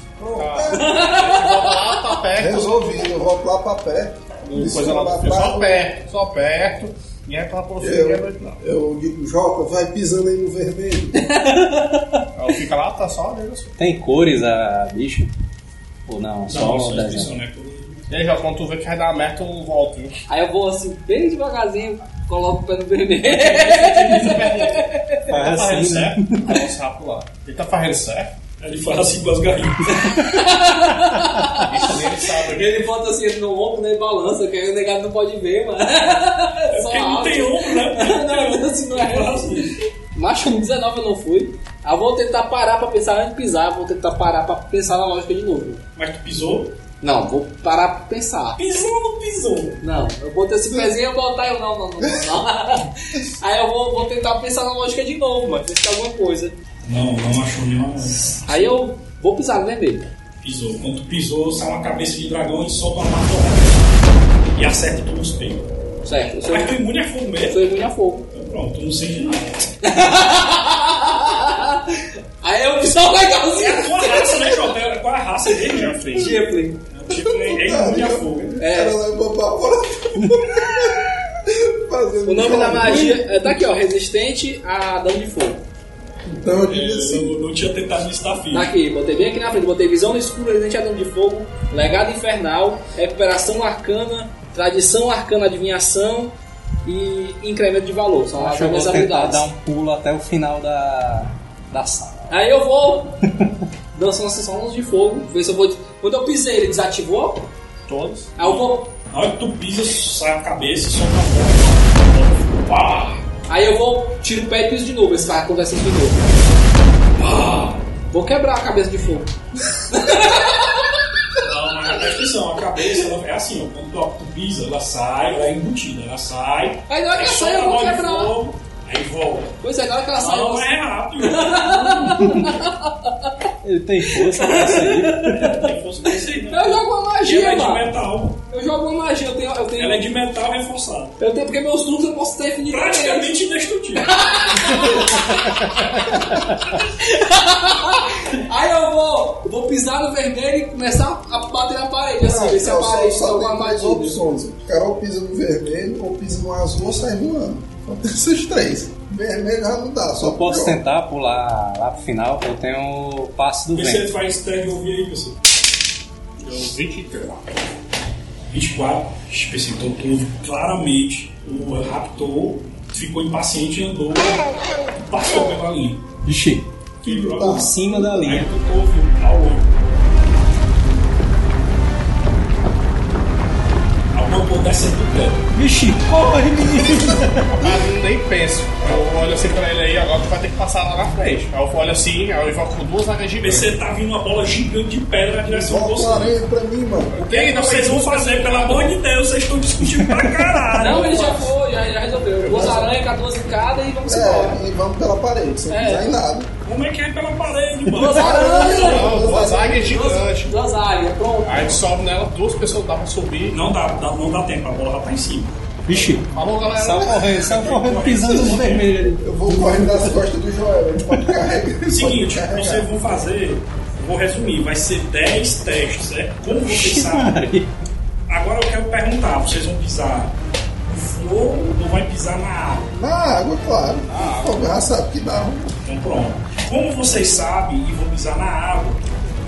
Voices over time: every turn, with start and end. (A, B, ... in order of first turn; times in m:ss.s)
0:00.2-0:01.0 A
0:00.4-0:02.7 B
0:00.7-0:02.0 C
0:02.4-0:05.9 A
0:04.5-0:08.6 B
0:07.8-0:11.3 A
0:11.2-0:12.2 C
0:12.4-0:13.8 B
0:13.8-0:15.3 D
0:16.1-0:17.3 D
0:16.5-0:18.1 E
0:18.1-0:20.1 B
0:20.3-0:25.2 C
0:23.3-0:28.3 B
0:25.3-0:26.6 D
0:28.6-0:30.0 E
0:29.9-0:45.8 C
0:31.7-0:32.8 B
0:36.7-0:39.7 E
0:46.0-0:46.8 E
0:47.0-0:48.6 C
0:48.6-0:49.8 E
0:49.8-0:56.6 C
0:52.0-0:52.3 A
0:56.8-0:58.4 E
0:58.4-1:00.1 C
1:00.4-1:03.8 E
1:04.5-1:05.7 E
1:06.0-1:06.8 C
1:06.5-1:07.6 E
1:07.5-1:08.3 C
1:08.3-1:09.7 E
1:09.8-1:14.7 C
1:13.6-1:16.0 E
1:15.7-1:16.4 B
1:16.2-1:16.8 C
1:16.9-1:18.5 E
1:17.5-1:23.2 A
1:18.6-1:19.0 C
1:22.2-1:25.6 C
1:26.3-1:27.4 A
1:26.7-1:28.7 E
1:28.5-1:36.3 C
1:36.8-1:39.4 C
1:38.4-1:42.3 D
1:42.3-1:43.2 C
1:43.9-1:47.5 C
1:47.9-1:48.5 B
1:48.4-1:48.9 C
1:49.1-1:53.2 E
1:53.5-1:56.3 C
1:57.2-1:57.8 E
1:58.1-2:00.9 C
2:01.4-2:09.6 E
2:06.9-2:08.3 C
2:09.6-2:10.7 C
2:10.2-2:12.4 E
2:11.2-2:13.3 C
2:12.0-2:12.5 D
2:13.6-2:15.4 D
2:14.0-2:15.5 C
2:15.2-2:18.4 E
2:16.5-2:17.9 C
2:18.5-2:20.0 C
2:19.8-2:21.2 E
2:21.2-2:23.3 C
2:22.7-2:24.2 E
2:24.0-2:34.2 C
2:32.2-2:40.8 A
2:40.3-2:44.1 D
2:43.7-2:45.4 E
2:46.4-2:47.4 B
2:48.5-2:54.4 E
2:55.0-2:56.0 E
2:56.3-2:56.7 D
2:57.0-2:59.7 E
2:57.0-2:58.3 A
2:57.4-2:58.5 D
3:04.1-3:05.4 E
3:05.5-3:07.7 D
3:07.5-3:13.7 B
3:13.4-3:16.4 E
3:15.4-3:17.3 A
3:17.2-3:19.0 B
3:17.2-3:21.5 E
3:19.9-3:20.4 D
3:20.8-3:24.6 C
3:22.4-3:22.9 A
3:24.1-3:26.5 A
3:25.7-3:26.1 C
3:26.6-3:28.9 E
3:27.9-3:31.8 C
3:28.0-3:30.0 A
3:28.7-3:30.5 B
3:31.4-3:33.6 B
3:33.5-3:36.1 E
3:35.9-3:40.2 D
3:36.3-3:37.4 B
3:37.3-3:38.9 E
3:39.2-3:42.9 A
3:41.9-3:47.4 E
3:46.6-3:47.7 D
3:48.3-3:52.9 E
3:52.9-3:55.7 A
3:54.1-3:54.6 B
3:55.8-3:59.0 E